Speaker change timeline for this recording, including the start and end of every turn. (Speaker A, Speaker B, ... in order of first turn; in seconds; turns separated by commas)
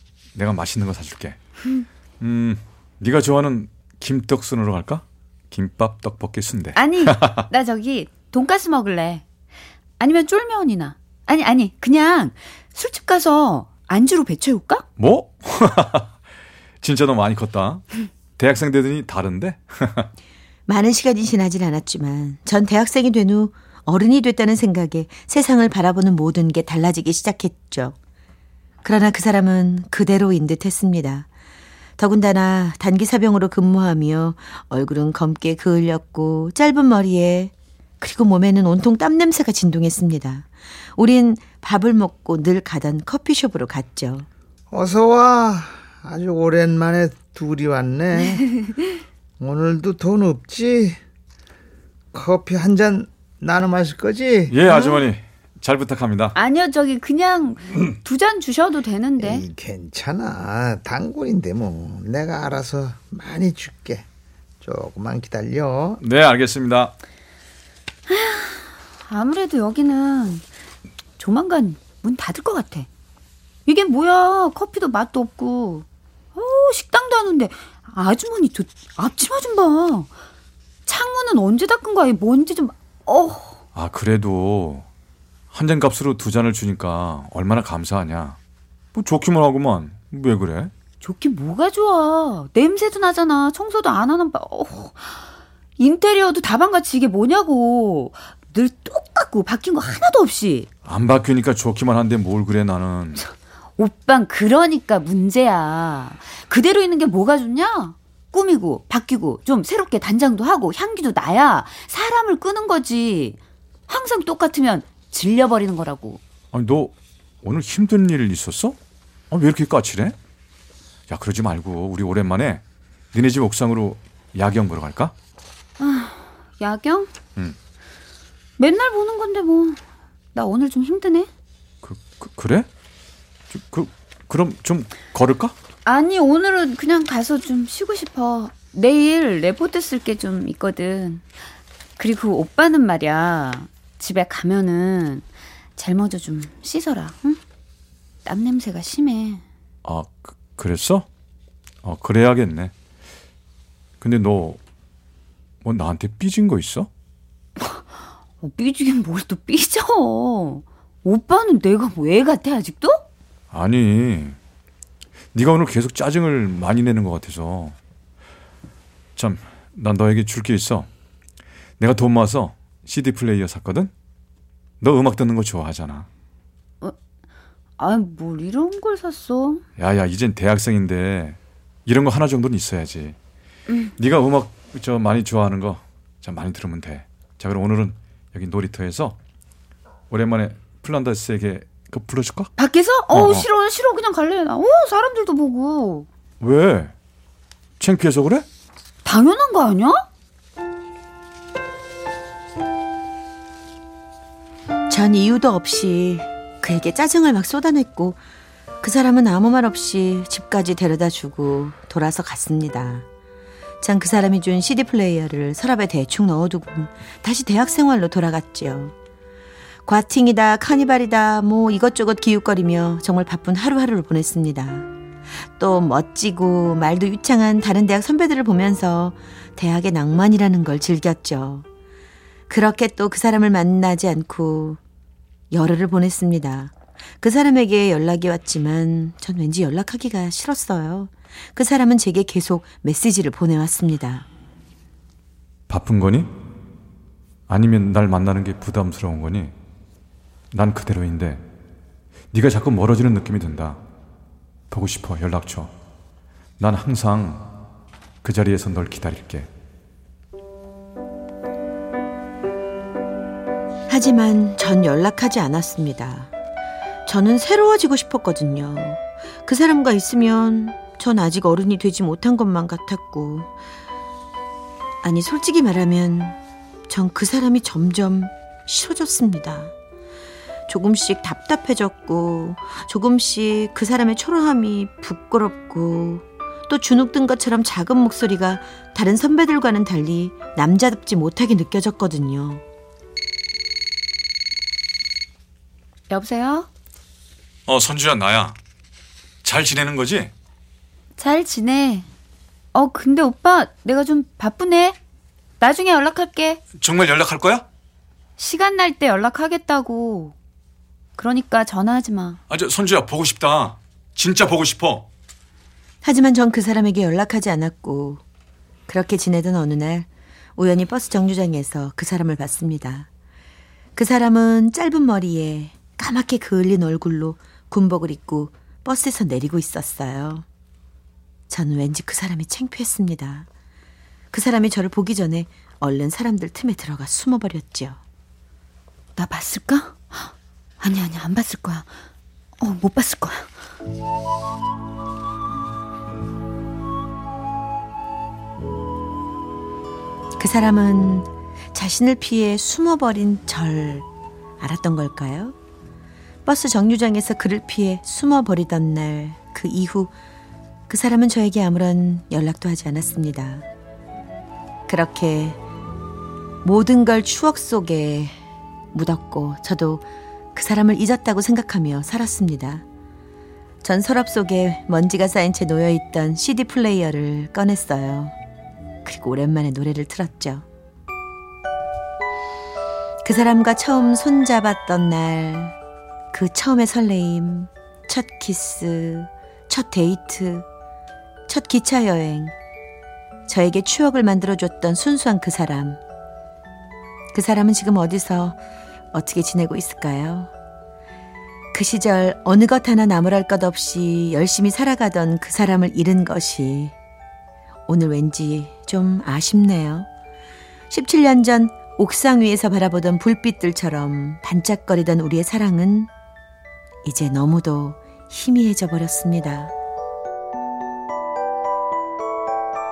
Speaker A: 0.3-1.4, Speaker A: 2.2-7.4, Speaker B: 6.7-9.2, Speaker B: 10.0-14.8, Speaker A: 15.0-16.1, Speaker A: 16.8-20.1, Speaker C: 20.7-27.9, Speaker C: 28.8-31.3, Speaker C: 32.0-44.3, Speaker D: 44.7-48.5, Speaker D: 49.4-51.0, Speaker D: 52.1-54.6, Speaker A: 54.5-56.4, Speaker B: 54.7-55.1, Speaker B: 56.3-59.4, Speaker D: 59.2-64.1, Speaker D: 64.6-66.0, Speaker A: 66.0-66.9, Speaker B: 68.1-70.4, Speaker B: 71.2-72.9, Speaker B: 73.7-80.1, Speaker B: 80.8-83.6, Speaker A: 83.7-84.8, Speaker A: 85.5-88.4, Speaker A: 88.9-90.7, Speaker B: 91.0-95.2, Speaker B: 95.8-100.7, Speaker A: 100.8-103.2, Speaker B: 103.8-116.2, Speaker A: 116.5-118.8, Speaker A: 119.3-120.2, Speaker A: 121.1-125.1, Speaker B: 125.8-127.1, Speaker B: 128.6-129.8, Speaker B: 130.3-131.3, Speaker A: 131.8-132.7, Speaker A: 133.5-135.6, Speaker B: 135.8-141.2, Speaker B: 142.0-147.4, Speaker B: 148.2-149.4, Speaker A: 149.8-151.1, Speaker A: 151.8-152.7, Speaker A: 154.0-154.6, Speaker A: 155.6-156.9, Speaker B: 157.6-157.8, Speaker B: 158.4-163.0, Speaker A: 163.5-164.4, Speaker A: 165.3-167.8, Speaker A: 169.2-170.9, Speaker A: 171.8-173.9, Speaker A: 174.8-176.1, Speaker B: 177.8-179.6, Speaker A: 179.8-183.2, Speaker A: 184.0-189.2, Speaker A: 190.1-192.5, Speaker B: 192.6-196.1, Speaker A: 193.1-193.5, Speaker A: 196.4-196.9, Speaker A: 197.8-198.4, Speaker B: 199.0-200.0, Speaker C: 204.9-208.2, Speaker C: 208.8-213.1, Speaker C: 213.8-218.9, Speaker C: 219.8-224.9, Speaker C: 225.6-231.7, Speaker C: 232.5-234.8, Speaker C: 235.5-244.3, Speaker A: 245.7-246.3, Speaker A: 247.5-249.5, Speaker A: 250.5-251.4, Speaker A: 252.3-253.8, Speaker A: 254.7-255.7, Speaker A: 256.6-257.5, Speaker A: 258.2-259.5, Speaker C: 263.9-266.3, Speaker C: 267.1-273.5, Speaker C: 275.0-276.4, Speaker C: 276.9-279.7, Speaker C: 280.7-292.6, Speaker B: 296.1-296.7, Speaker A: 297.7-298.6, Speaker A: 299.4-300.3, Speaker B: 301.2-302.1, Speaker B: 302.7-305.0, Speaker B: 305.6-306.6, Speaker A: 306.7-307.6, Speaker B: 308.4-310.3, Speaker B: 311.2-312.4, Speaker A: 312.5-315.1, Speaker C: 316.0-318.2, Speaker C: 318.9-323.1, Speaker C: 323.9-330.4, Speaker C: 331.5-333.5, Speaker C: 334.3-338.0, Speaker B: 339.2-341.9, Speaker B: 342.6-343.5, Speaker C: 350.4-354.1, Speaker C: 354.6-355.6, Speaker C: 356.4-360.1, Speaker C: 360.9-363.7, Speaker C: 364.9-365.6, Speaker C: 366.6-368.4, Speaker C: 368.9-372.8, Speaker C: 373.8-378.3, Speaker C: 379.1-380.6, Speaker C: 383.2-385.8, Speaker C: 386.3-390.7, Speaker C: 391.5-392.5, Speaker C: 393.5-396.0, Speaker C: 397.3-398.6, Speaker C: 399.1-400.5, Speaker C: 401.7-406.9, Speaker C: 407.9-410.1, Speaker C: 410.9-416.1, Speaker C: 417.1-419.7